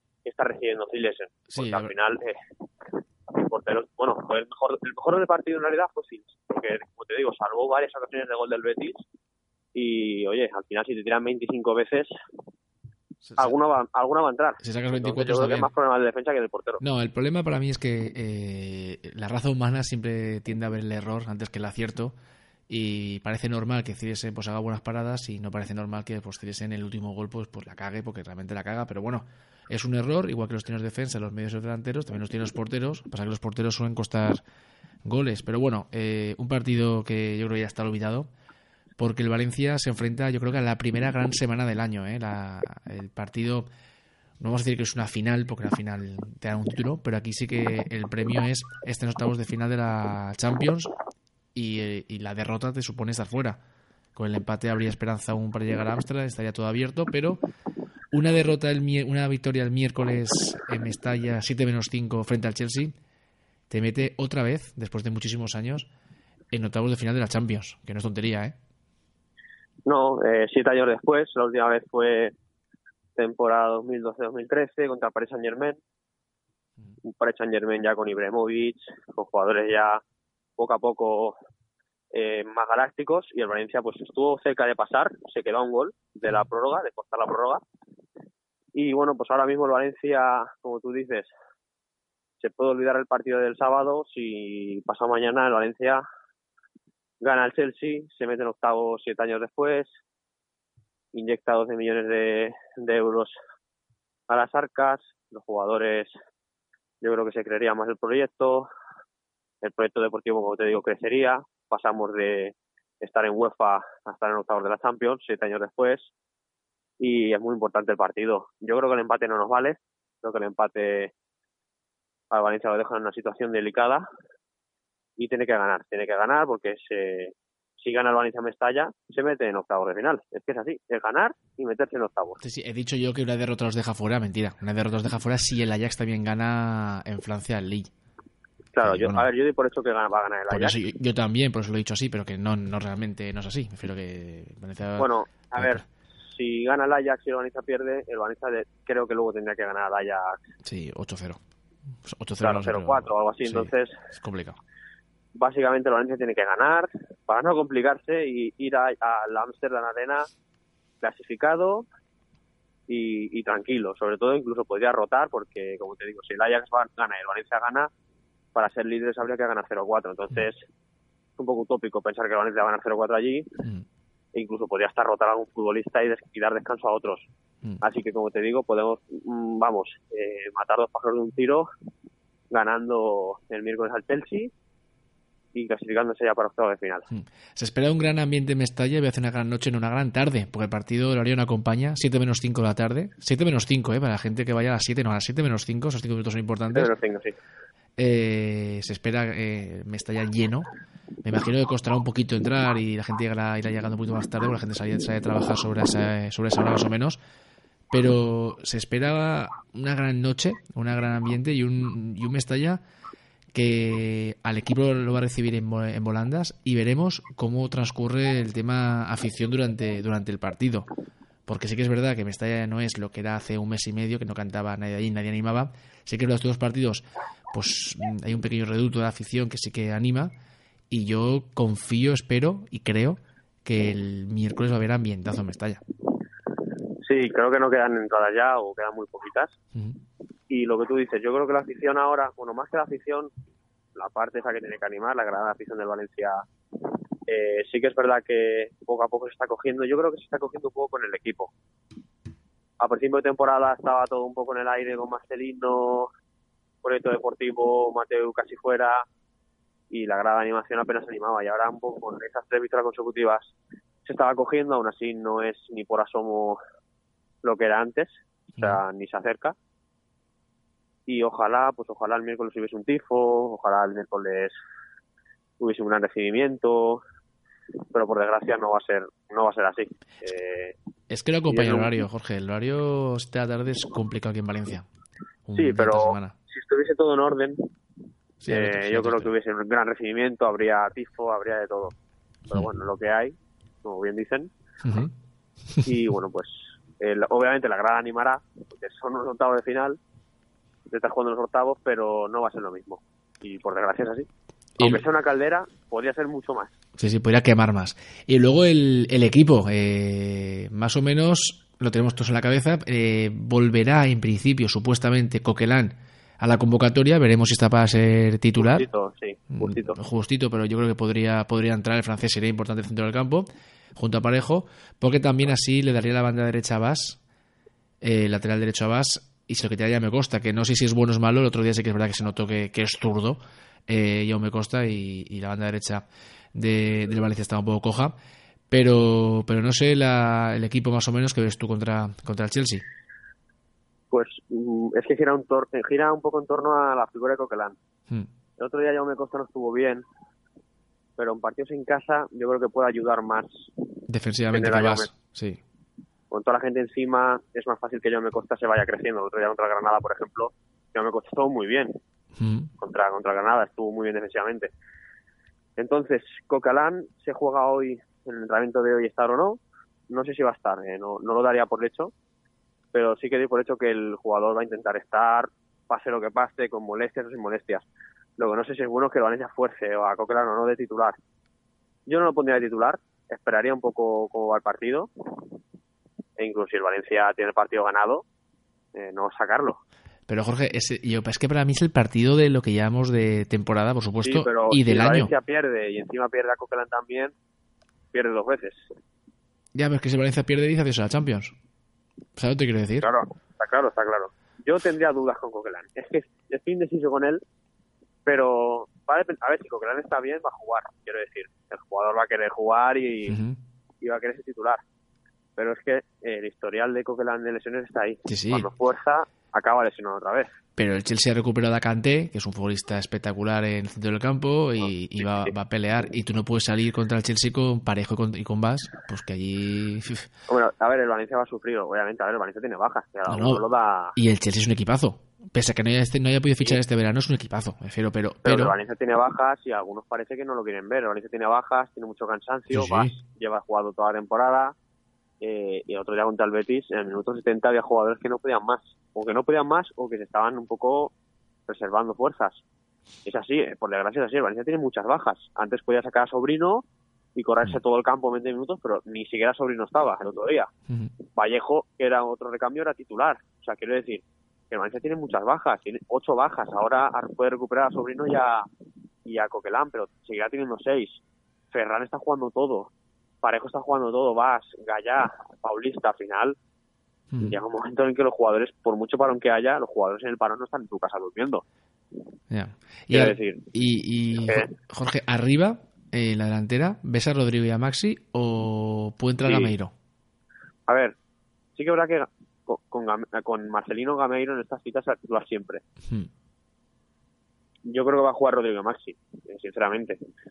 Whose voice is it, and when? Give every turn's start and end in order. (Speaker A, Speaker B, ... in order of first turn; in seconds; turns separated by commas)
Speaker A: 0.2-2.4, Speaker B: 1.5-1.9, Speaker A: 3.3-9.0, Speaker A: 9.7-12.1, Speaker A: 13.4-16.8, Speaker B: 14.6-15.7, Speaker B: 16.8-22.1, Speaker B: 22.7-34.4, Speaker B: 35.0-38.3, Speaker B: 39.0-43.7, Speaker B: 44.4-50.9, Speaker B: 51.5-53.6, Speaker B: 54.1-57.4, Speaker B: 58.1-62.9, Speaker B: 63.7-65.9, Speaker B: 66.5-68.5, Speaker A: 69.8-72.3, Speaker A: 73.2-75.8, Speaker A: 77.0-80.0, Speaker A: 80.6-81.3, Speaker A: 82.1-87.6, Speaker A: 88.7-91.3, Speaker A: 92.4-96.0, Speaker A: 97.2-99.9, Speaker A: 101.1-103.3, Speaker A: 104.3-106.1, Speaker A: 107.0-108.7, Speaker A: 109.6-116.1, Speaker A: 117.0-121.1, Speaker A: 122.3-124.0, Speaker A: 125.2-132.4, Speaker B: 132.4-137.9, Speaker A: 138.7-140.8, Speaker B: 138.8-139.3, Speaker B: 140.5-145.8, Speaker A: 145.0-150.5, Speaker B: 150.6-151.4, Speaker B: 152.1-154.6, Speaker A: 152.4-154.0, Speaker A: 155.4-160.3, Speaker A: 161.0-161.9, Speaker A: 162.9-167.9, Speaker A: 168.6-170.6, Speaker A: 171.4-173.6, Speaker A: 174.3-177.3, Speaker A: 177.8-181.7, Speaker A: 182.5-184.5, Speaker A: 185.5-187.1, Speaker B: 187.1-196.9, Speaker A: 196.7-197.4, Speaker B: 198.0-200.7, Speaker B: 201.2-207.2, Speaker B: 207.9-212.8, Speaker B: 213.5-220.9, Speaker B: 221.5-230.3, Speaker B: 230.9-235.8, Speaker A: 237.0-239.6, Speaker A: 240.5-243.3, Speaker A: 243.9-246.4, Speaker A: 247.3-251.5, Speaker A: 252.8-256.1, Speaker A: 256.8-259.1, Speaker A: 259.9-263.5, Speaker A: 264.1-266.6, Speaker A: 267.4-269.6, Speaker A: 271.1-274.6, Speaker A: 275.6-277.0, Speaker A: 277.9-280.8, Speaker B: 281.1-284.9, Speaker A: 281.5-282.0, Speaker B: 285.5-286.3, Speaker A: 285.6-287.7, Speaker B: 288.4-289.3, Speaker A: 288.5-291.9, Speaker A: 292.5-294.5, Speaker B: 294.8-295.1, Speaker A: 295.9-300.0, Speaker A: 300.9-304.3, Speaker A: 304.8-306.8, Speaker B: 307.0-318.9, Speaker A: 318.6-320.0, Speaker B: 319.5-327.2, Speaker B: 328.0-338.1, Speaker B: 338.7-342.8, Speaker A: 344.1-347.8, Speaker A: 348.6-350.1, Speaker A: 351.2-353.7, Speaker B: 354.1-355.6, Speaker A: 354.5-355.1, Speaker A: 356.3-361.9, Speaker B: 362.4-362.7, Speaker A: 362.8-364.7, Speaker A: 365.8-372.1, Speaker A: 372.9-377.9, Speaker A: 378.4-381.2, Speaker A: 382.1-385.4, Speaker A: 386.4-388.2, Speaker A: 388.9-389.8, Speaker B: 390.3-395.3, Speaker A: 394.2-397.3, Speaker A: 398.1-398.9, Speaker B: 399.7-401.5, Speaker B: 402.4-403.1, Speaker A: 403.0-407.4, Speaker A: 408.2-413.4, Speaker B: 413.3-413.6, Speaker A: 414.0-414.8, Speaker A: 415.6-420.5, Speaker B: 418.3-418.7, Speaker B: 420.8-430.3, Speaker A: 424.8-425.5, Speaker A: 430.5-434.2, Speaker B: 433.3-433.6, Speaker B: 434.2-438.8, Speaker A: 438.4-444.7, Speaker B: 442.7-443.2, Speaker A: 445.4-451.1, Speaker A: 451.7-452.6, Speaker A: 453.2-456.8, Speaker A: 457.4-460.7, Speaker A: 461.3-468.6, Speaker A: 469.3-476.6, Speaker B: 477.3-477.6, Speaker A: 477.4-481.6, Speaker B: 482.5-489.9, Speaker A: 483.1-483.6, Speaker A: 489.4-489.7, Speaker A: 490.9-491.1, Speaker A: 491.7-495.8, Speaker A: 497.9-500.2